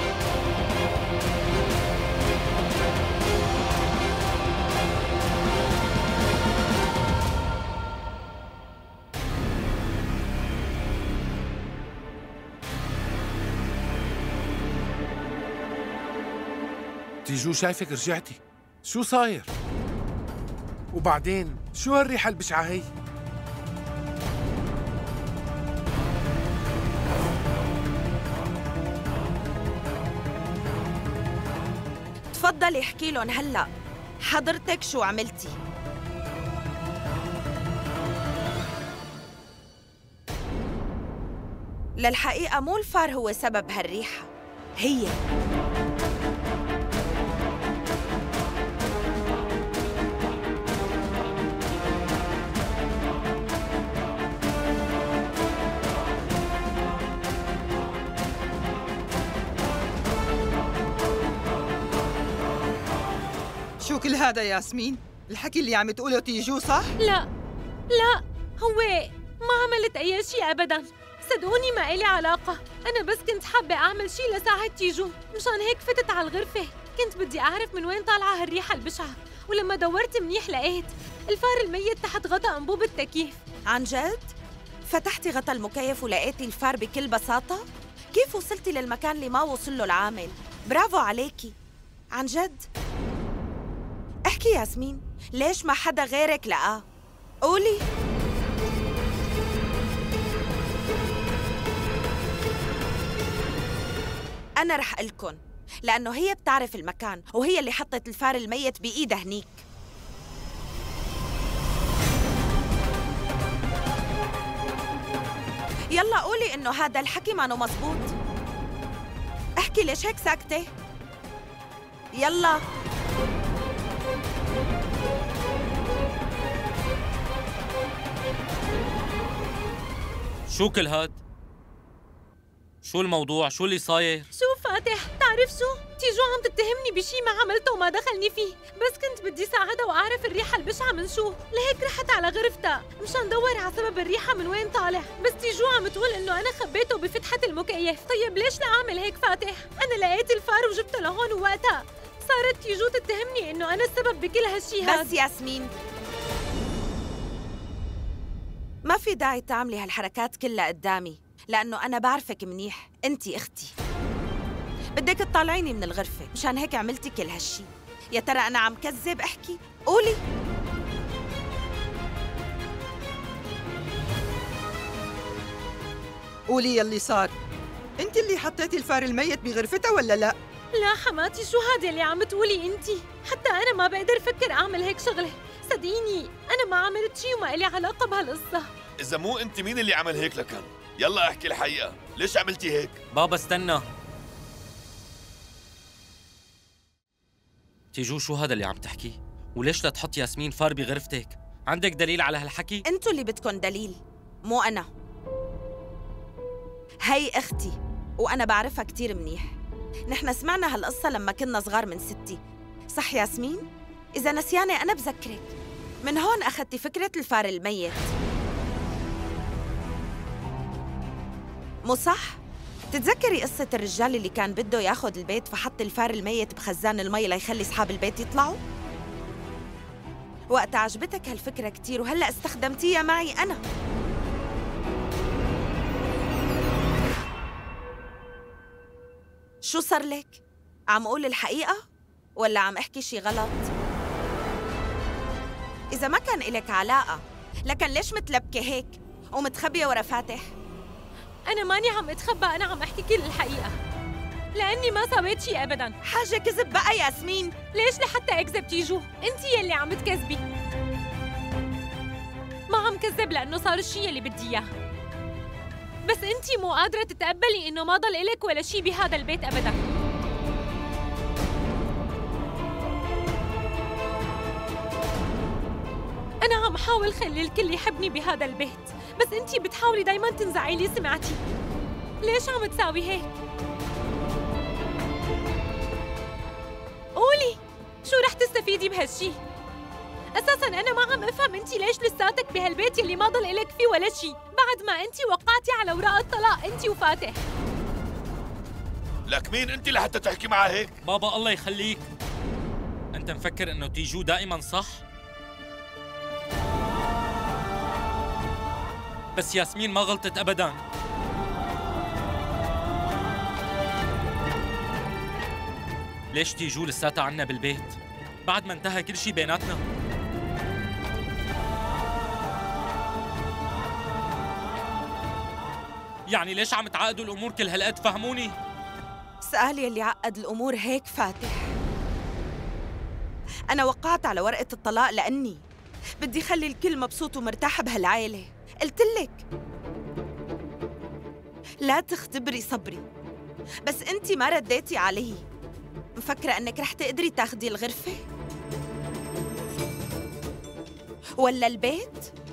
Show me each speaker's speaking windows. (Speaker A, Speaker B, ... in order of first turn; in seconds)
Speaker A: 17.2-19.5, 20.9-22.9
Speaker B: 32.3-33.7, 34.3-35.6, 42.0-44.3, 44.8-45.2, 83.7-84.3, 84.9-91.5, 92.2-92.7, 94.3-96.8, 97.5-97.8, 104.6-109.6, 115.9-118.1, 119.6-120.7, 122.1-122.6, 154.8-155.7, 158.9-163.7, 164.9-170.2, 202.9-204.9, 207.1-209.6, 210.1-212.4, 212.9-213.7, 214.2-218.1, 221.9-222.4, 222.9-228.6, 230.5-233.6, 239.7-240.4, 240.9-241.8, 242.4-243.7, 245.9-250.5, 256.1-257.5, 329.4-331.7, 333.7-335.6, 336.2-339.4, 341.8-343.1, 343.9-345.4, 346.2-348.2, 351.4-352.3
Speaker C: 63.8-67.0, 176.5-177.3, 178.0-180.3
Speaker D: 67.0-67.3, 67.9-83.4, 134.3-155.1, 180.8-188.7, 251.5-253.8, 254.6-256.0, 257.7-260.4, 262.7-264.7, 266.1-269.9, 276.4-281.4, 282.2-283.3, 287.2-289.4, 290.4-297.4
Speaker E: 130.5-131.2, 132.8-134.3, 193.1-193.9, 197.9-202.8, 301.1-302.1, 303.1-305.0, 309.4-310.8, 316.3-319.8, 326.3-328.6
Speaker F: 189.0-193.0, 299.3-300.9